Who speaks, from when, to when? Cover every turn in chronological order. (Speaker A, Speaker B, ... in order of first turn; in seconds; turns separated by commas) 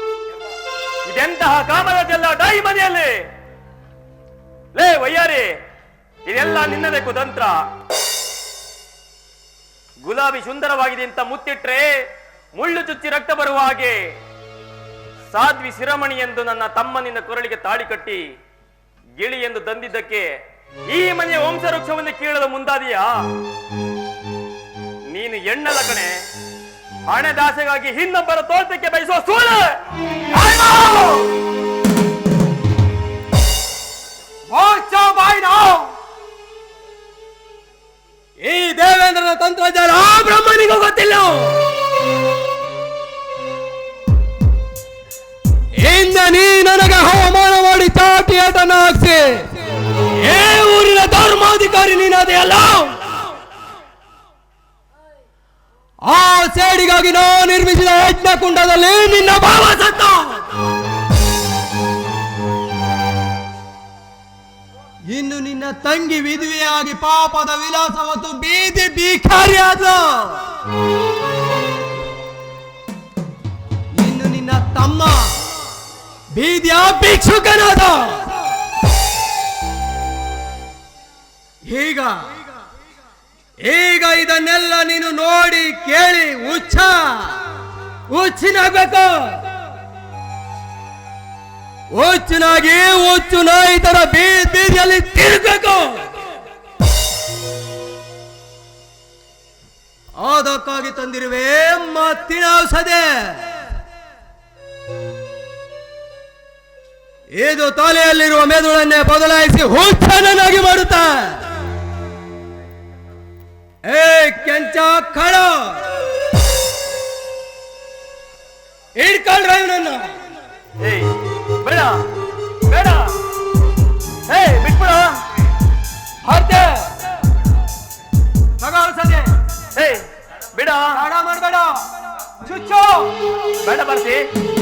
Speaker A: 1.1-3.1, Speaker A: 4.8-5.5, Speaker A: 6.3-7.6, Speaker A: 10.0-11.9, Speaker A: 12.6-14.0, Speaker A: 15.3-18.2, Speaker A: 19.2-20.3, Speaker A: 20.9-23.1, Speaker A: 25.1-26.1, Speaker A: 27.1-29.7, Speaker B: 30.4-31.2, Speaker B: 34.5-35.9, Speaker B: 38.4-41.6, Speaker B: 45.8-49.5, Speaker B: 50.2-53.0, Speaker B: 56.0-60.5, Speaker B: 65.1-70.5, Speaker B: 73.9-75.4, Speaker B: 76.3-78.3, Speaker B: 81.6-82.3, Speaker B: 83.6-87.4, Speaker B: 88.1-89.5, Speaker B: 91.9-96.2, Speaker B: 100.2-103.6, Speaker B: 107.4-111.4, Speaker B: 113.8-115.8, Speaker B: 119.0-120.2, Speaker A: 120.8-122.0, Speaker A: 122.7-123.1, Speaker A: 124.3-125.1, Speaker B: 126.2-126.9, Speaker B: 128.6-129.3, Speaker A: 129.8-131.0, Speaker B: 130.9-133.1, Speaker A: 133.6-134.2